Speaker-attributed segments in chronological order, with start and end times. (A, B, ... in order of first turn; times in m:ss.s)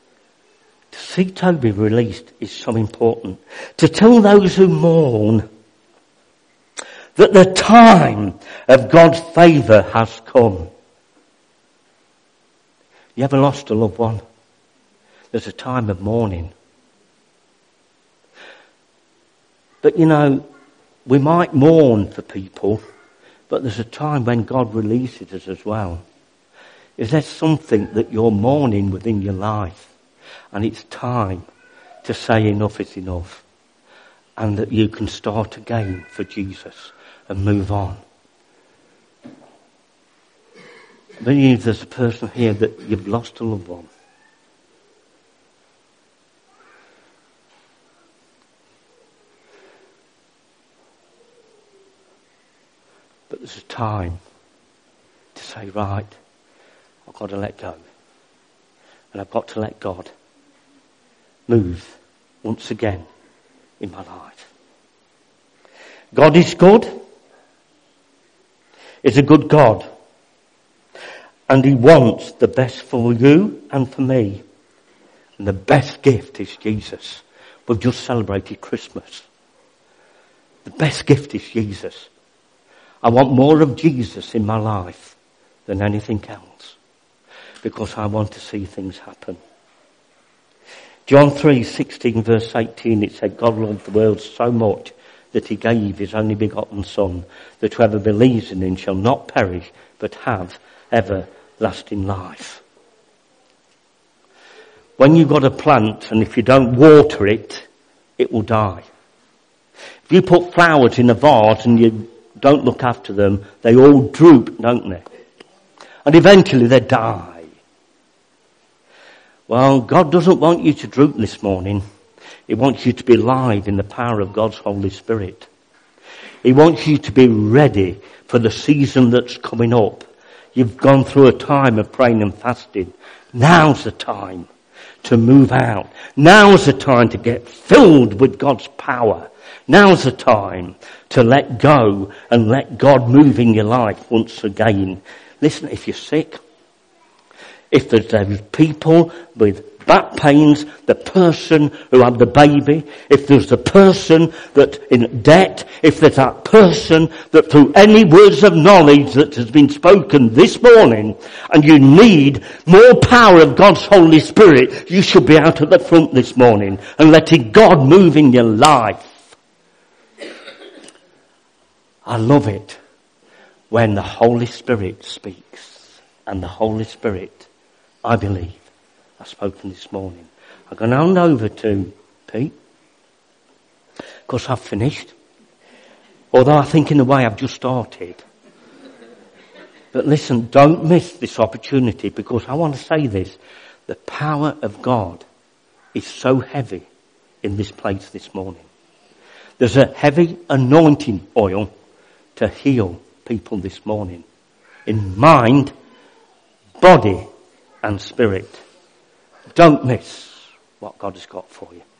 0:00.9-0:05.4 A
0:07.2-0:10.7 A
0:13.2-0:14.2 A
0:15.3-0:16.5 A
0:19.8-0:20.4 A
0:21.1-0:22.8 A
0:23.5-0:26.0 A
0:27.0-0:29.9 A
0:30.5-0:31.5 A
0:32.0-0:33.4 A
0:34.4-0:38.0 A
0:41.2-0:43.9 A
0:53.3-0:54.2 A
0:55.4-0:56.1 A
0:57.1-0:57.8 A
0:59.1-1:00.1 A
1:01.5-1:03.1 A
1:03.8-1:04.5 A
1:06.1-1:06.9 A
1:09.0-1:09.9 A
1:11.5-1:14.4 A
1:15.4-1:19.3 A
1:20.6-1:22.1 A
1:23.0-1:25.2 A
1:25.7-1:26.8 A
1:27.6-1:29.4 A
1:31.1-1:42.6 A
1:45.0-1:47.7 A
1:48.2-1:48.8 A
1:50.1-1:55.0 A
1:56.0-1:57.5 A
1:59.5-2:01.8 A
2:02.5-2:05.5 A
2:06.4-2:14.5 A
2:15.0-2:26.4 A
2:27.7-2:49.2 A
2:52.1-2:52.8 A
2:53.7-2:57.5 A
2:58.0-2:58.6 A
2:59.2-3:02.5 A
3:04.3-3:05.1 A
3:06.3-3:08.2 A
3:09.9-3:15.2 A
3:15.9-3:16.9 A
3:17.4-3:18.7 A
3:19.6-3:21.7 A
3:22.4-3:24.2 A
3:24.9-3:25.7 A
3:26.8-3:27.3 A
3:27.8-3:28.6 A
3:29.5-3:31.8 A